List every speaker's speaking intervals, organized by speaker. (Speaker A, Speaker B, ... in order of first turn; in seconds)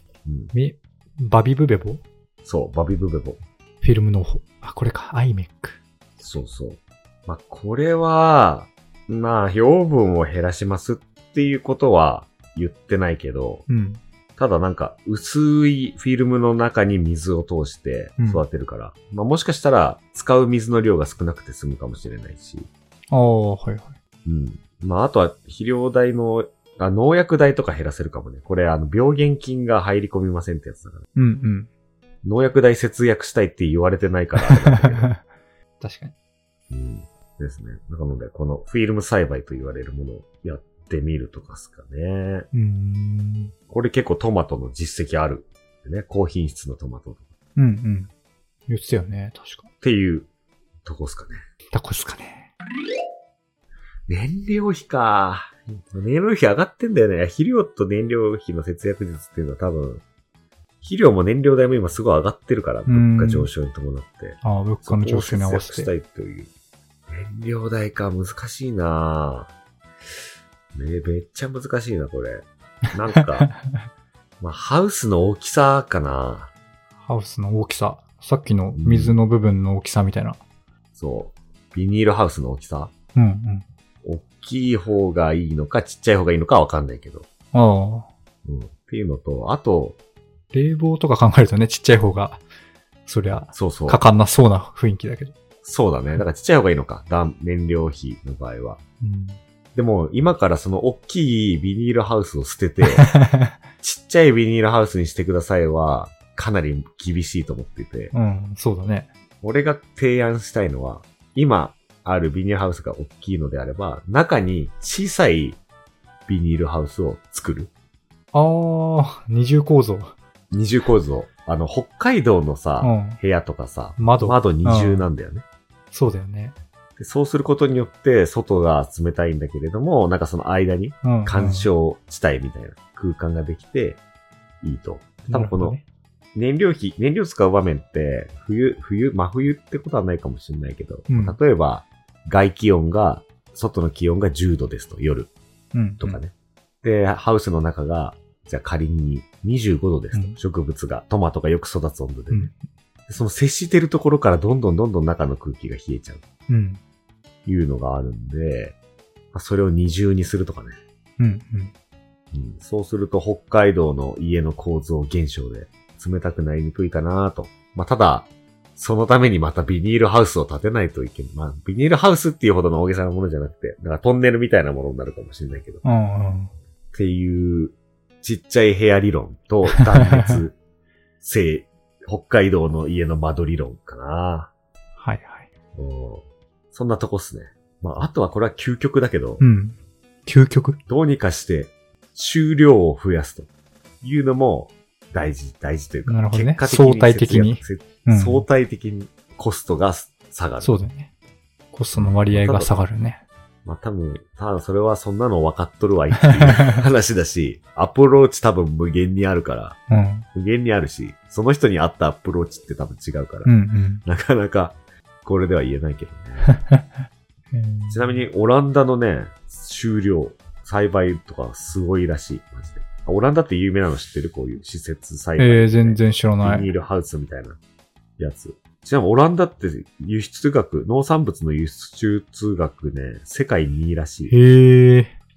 Speaker A: 0.3-0.5, 2.4-3.4, 6.2-13.7, 14.4-22.7, 24.2-31.0, 32.2-35.1, 36.7-42.5, 43.7-47.2, 49.8-50.3, 50.9-51.4, 54.1-60.0, 60.8-66.5, 67.1-69.5, 70.7-73.5, 74.4-76.5, 78.8-79.2, 81.0-82.9, 84.0-87.3, 88.5-90.0, 93.5-94.0, 95.6-98.8, 99.8-103.1, 103.8-108.1, 109.4-115.6, 116.3-117.7, 120.5-125.4, 127.0-134.0, 134.6-135.8, 136.3-145.3, 146.0-146.3, 146.8-152.5, 153.1-156.2, 157.5-158.8, 159.3-160.8, 162.3-175.8, 176.9-180.6, 181.2-184.5, 185.8-189.4, 190.9-193.5, 194.0-200.8, 201.9-202.7, 203.7-209.8, 210.3-213.5, 214.1-216.5, 217.9-227.6, 228.2-234.3
Speaker B: 0.5-2.0, 3.8-5.8, 13.7-14.0, 18.2-18.4, 23.1-24.0, 31.1-31.7, 34.4-35.2, 35.8-36.1, 42.5-43.5, 47.6-48.1, 48.7-49.7, 51.7-52.5, 62.9-63.5, 64.4-65.9, 73.2-73.5, 77.0-80.4, 83.2-83.7, 87.5-88.1, 90.5-92.4, 93.1-95.3, 99.0-99.4, 102.9-103.6, 108.1-109.1, 118.3-120.1, 122.8-123.2, 124.0-125.1, 125.9-126.6, 131.0-131.7, 135.3-135.8, 141.1-141.4, 145.7-146.2, 150.1-150.4, 152.3-152.6, 156.5-156.8, 161.2-161.7, 175.8-176.5, 179.7-180.4, 185.0-185.5, 189.4-190.8, 196.1-198.5, 200.6-201.1, 201.7-203.2, 206.2-206.8, 209.9-210.3, 213.4-214.0, 216.4-216.8, 217.5-218.2, 225.4-226.7, 234.3-235.1